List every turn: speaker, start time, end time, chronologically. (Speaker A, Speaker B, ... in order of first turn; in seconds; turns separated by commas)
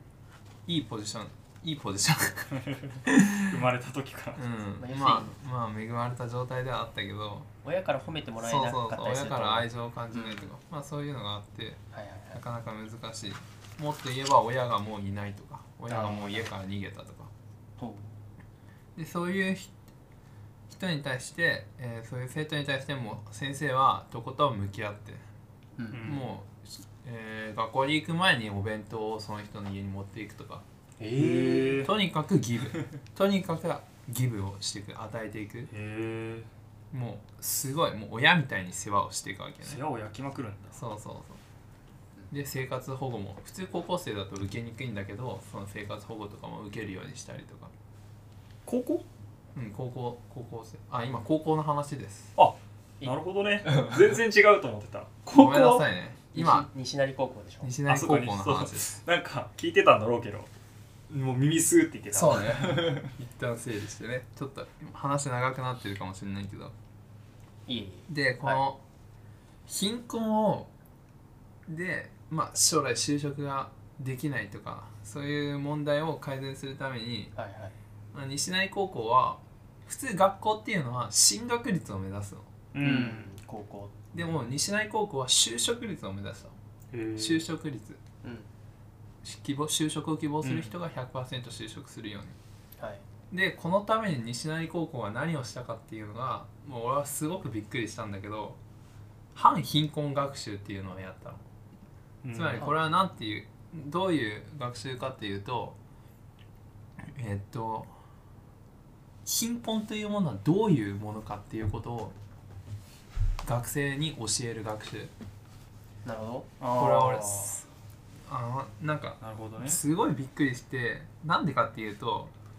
Speaker A: 0.7-2.5, Speaker B: 2.6-4.5, Speaker A: 3.1-3.4, Speaker A: 4.4-7.5, Speaker C: 4.8-5.4, Speaker C: 7.6-10.5, Speaker A: 8.4-11.8, Speaker C: 11.9-12.4, Speaker A: 12.3-17.3, Speaker C: 15.9-16.5, Speaker C: 17.8-18.1, Speaker A: 18.9-19.7, Speaker A: 20.7-25.2, Speaker C: 25.8-26.1, Speaker B: 25.9-26.3, Speaker A: 26.0-30.6, Speaker C: 31.0-31.8, Speaker B: 31.1-31.9, Speaker A: 31.7-35.7, Speaker B: 35.7-36.5, Speaker A: 36.9-39.8, Speaker B: 39.6-40.8, Speaker A: 40.8-41.4, Speaker A: 42.3-47.7, Speaker B: 48.7-49.0, Speaker A: 49.5-52.4, Speaker B: 52.4-55.9, Speaker A: 55.3-56.7, Speaker C: 56.3-57.8, Speaker A: 57.6-59.0, Speaker B: 57.9-60.5, Speaker B: 61.1-63.1, Speaker A: 62.1-66.7, Speaker C: 67.7-68.6, Speaker A: 68.1-68.8, Speaker A: 69.7-70.7, Speaker A: 71.7-77.3, Speaker C: 77.3-77.8, Speaker A: 78.1-82.5, Speaker B: 82.7-83.3, Speaker C: 82.8-84.3, Speaker A: 84.1-86.5, Speaker B: 86.9-87.5, Speaker A: 87.2-88.0, Speaker C: 88.2-88.5, Speaker A: 89.2-92.4, Speaker B: 90.4-90.8, Speaker C: 92.8-93.0, Speaker A: 93.3-98.6, Speaker A: 99.3-101.4, Speaker B: 102.2-102.7, Speaker A: 102.3-105.8, Speaker A: 107.1-107.9, Speaker A: 109.2-112.2, Speaker A: 113.4-115.1, Speaker C: 116.0-116.6, Speaker B: 116.6-117.6, Speaker A: 116.7-117.7, Speaker A: 118.3-122.3, Speaker B: 119.2-119.8